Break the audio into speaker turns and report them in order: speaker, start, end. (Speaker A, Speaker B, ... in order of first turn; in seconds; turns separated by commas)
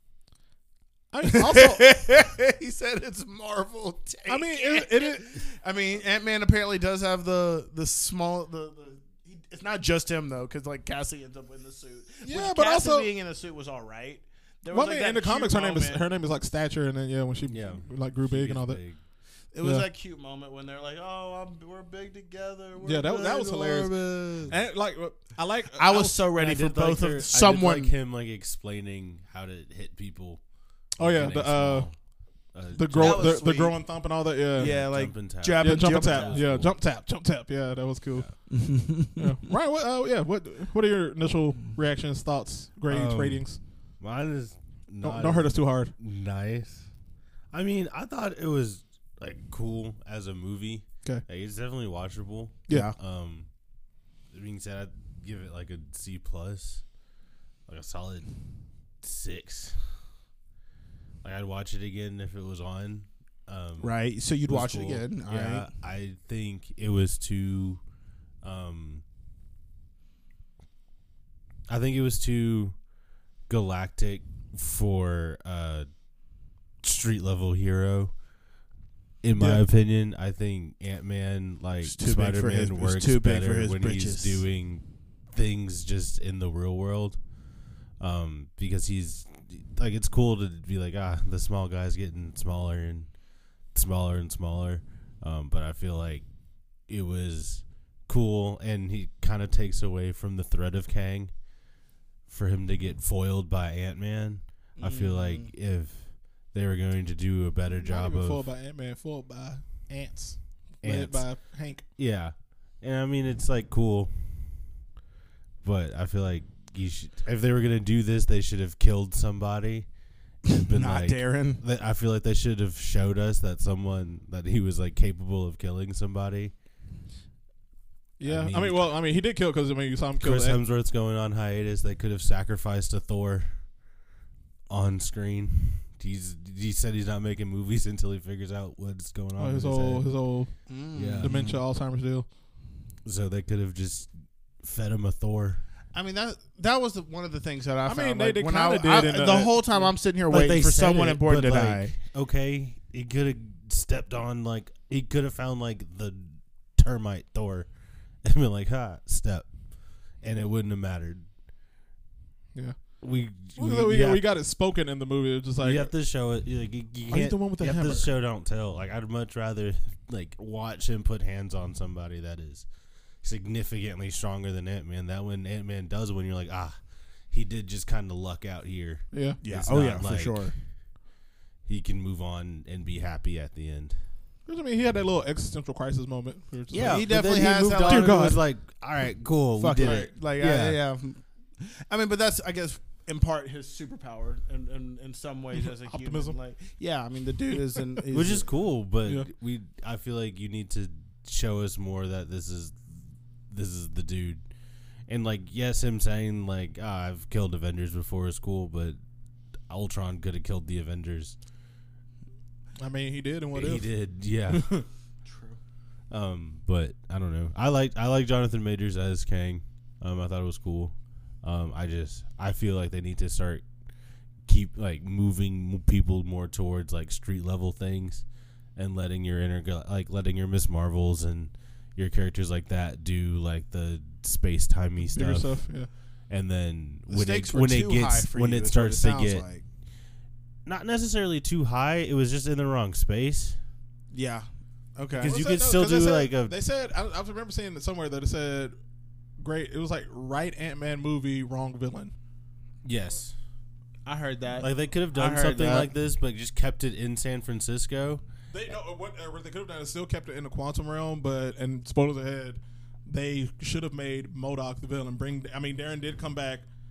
Speaker A: 1.1-1.9, Speaker B: 1.2-16.0, Speaker A: 4.3-5.3, Speaker A: 12.2-13.1, Speaker A: 14.7-18.8, Speaker C: 17.5-19.0, Speaker B: 19.5-24.5, Speaker A: 22.8-26.3, Speaker C: 24.1-24.5, Speaker B: 25.8-27.9, Speaker C: 26.4-30.4, Speaker C: 31.0-32.0, Speaker A: 31.0-31.9, Speaker C: 32.5-33.6, Speaker A: 32.8-34.8, Speaker B: 33.0-33.8, Speaker B: 34.6-36.4, Speaker C: 34.6-36.7, Speaker A: 35.6-38.5, Speaker B: 38.5-39.3, Speaker A: 39.2-43.6, Speaker C: 42.9-43.5, Speaker C: 44.0-46.9, Speaker A: 45.0-45.9, Speaker C: 47.5-53.5, Speaker B: 52.7-53.0, Speaker C: 54.3-56.8, Speaker C: 57.7-58.3, Speaker C: 59.0-59.9, Speaker C: 61.2-64.0, Speaker B: 63.8-65.7, Speaker C: 64.5-67.8, Speaker C: 68.4-69.0, Speaker C: 71.7-72.8, Speaker C: 73.5-75.9, Speaker C: 76.8-78.1, Speaker C: 79.2-87.2, Speaker B: 79.4-79.6, Speaker B: 81.8-84.4, Speaker C: 88.0-93.1, Speaker C: 93.7-96.3, Speaker C: 96.9-101.3, Speaker C: 102.3-108.4, Speaker B: 104.8-105.5, Speaker A: 107.7-111.8, Speaker C: 110.8-111.2, Speaker C: 112.0-114.6, Speaker C: 115.6-119.9, Speaker B: 120.5-121.6, Speaker C: 120.5-126.5, Speaker A: 128.2-130.6, Speaker C: 128.2-128.9, Speaker C: 130.2-133.6, Speaker C: 134.7-140.1, Speaker A: 139.4-142.3, Speaker B: 140.7-141.6, Speaker C: 141.0-141.3, Speaker C: 143.1-145.6, Speaker B: 145.9-151.9, Speaker A: 147.9-149.9, Speaker C: 150.3-157.7, Speaker C: 158.2-159.5, Speaker C: 160.2-161.2, Speaker C: 163.0-164.2, Speaker A: 163.5-165.9, Speaker C: 165.6-172.7, Speaker A: 167.1-168.1, Speaker C: 173.2-176.8, Speaker C: 177.3-180.5, Speaker A: 179.1-179.4, Speaker B: 179.4-180.5, Speaker C: 181.7-184.0, Speaker A: 184.5-188.4, Speaker C: 186.7-190.8, Speaker B: 186.7-188.3, Speaker B: 189.6-198.5, Speaker A: 189.8-190.1, Speaker A: 195.6-196.4, Speaker C: 198.1-204.4, Speaker A: 199.0-199.3, Speaker C: 205.1-209.0, Speaker C: 209.7-211.4, Speaker A: 212.8-213.9, Speaker C: 213.5-214.7, Speaker A: 214.5-214.9, Speaker B: 215.2-215.6, Speaker C: 216.1-223.7, Speaker C: 224.5-228.2, Speaker C: 228.8-235.6, Speaker A: 235.0-235.9, Speaker C: 236.3-239.4, Speaker B: 237.1-239.6, Speaker C: 240.7-243.6, Speaker B: 244.1-245.4, Speaker C: 245.2-246.6, Speaker A: 245.2-248.7, Speaker A: 249.4-252.1, Speaker C: 252.8-253.4, Speaker B: 254.1-255.9, Speaker C: 254.6-258.2, Speaker A: 258.5-266.7